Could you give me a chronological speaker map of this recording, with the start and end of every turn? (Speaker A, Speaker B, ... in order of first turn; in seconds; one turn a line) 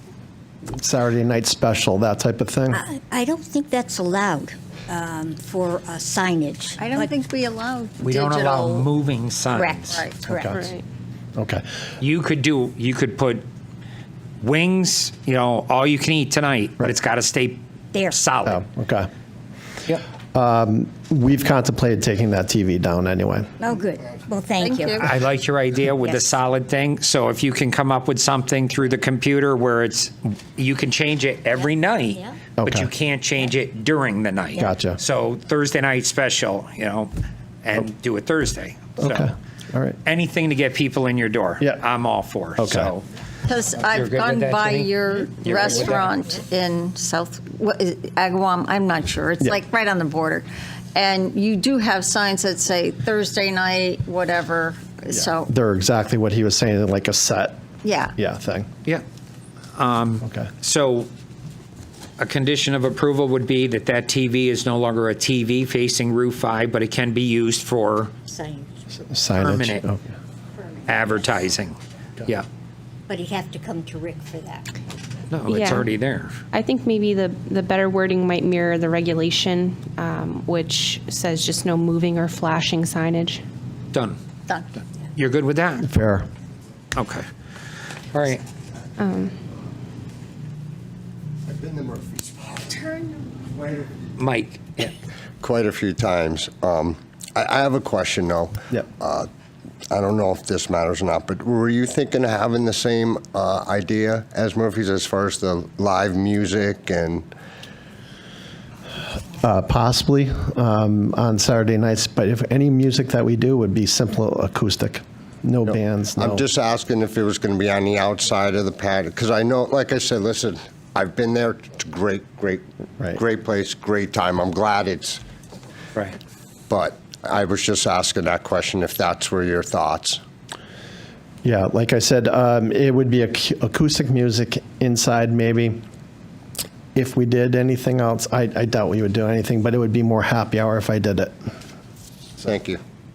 Speaker A: 0.7-2.8
Speaker B: 2.7-7.1
Speaker C: 6.8-8.9
Speaker D: 8.0-10.0
Speaker B: 9.5-10.6
Speaker C: 9.9-10.2
Speaker A: 10.3-10.6
Speaker E: 10.5-10.8
Speaker A: 11.4-11.6
Speaker D: 12.0-13.5
Speaker D: 14.4-18.6
Speaker B: 17.9-18.2
Speaker A: 18.4-19.1
Speaker A: 20.3-23.5
Speaker B: 23.6-25.0
Speaker C: 24.6-25.1
Speaker D: 25.0-37.1
Speaker A: 32.6-32.9
Speaker A: 34.6-35.0
Speaker D: 37.6-39.3
Speaker A: 39.0-40.0
Speaker D: 40.0-43.1
Speaker A: 42.6-42.9
Speaker C: 43.5-55.5
Speaker D: 43.9-46.1
Speaker A: 55.1-57.6
Speaker C: 57.8-58.1
Speaker A: 58.2-58.7
Speaker D: 59.8-61.1
Speaker D: 62.2-68.2
Speaker B: 68.3-68.7
Speaker A: 69.1-70.1
Speaker D: 69.3-69.9
Speaker B: 70.6-71.3
Speaker D: 70.8-72.5
Speaker B: 73.1-74.8
Speaker D: 75.3-76.3
Speaker E: 75.5-75.9
Speaker E: 76.5-83.4
Speaker D: 85.2-85.9
Speaker A: 85.8-86.3
Speaker D: 87.0-87.3
Speaker D: 88.1-88.4
Speaker E: 89.0-89.3
Speaker F: 91.5-94.0
Speaker D: 94.2-94.9
Speaker F: 95.4-99.3
Speaker F: 99.9-107.3
Speaker A: 109.4-116.4
Speaker F: 115.7-125.2
Speaker F: 126.7-130.2
Speaker A: 131.4-135.8
Speaker A: 136.9-141.3
Speaker F: 142.4-142.8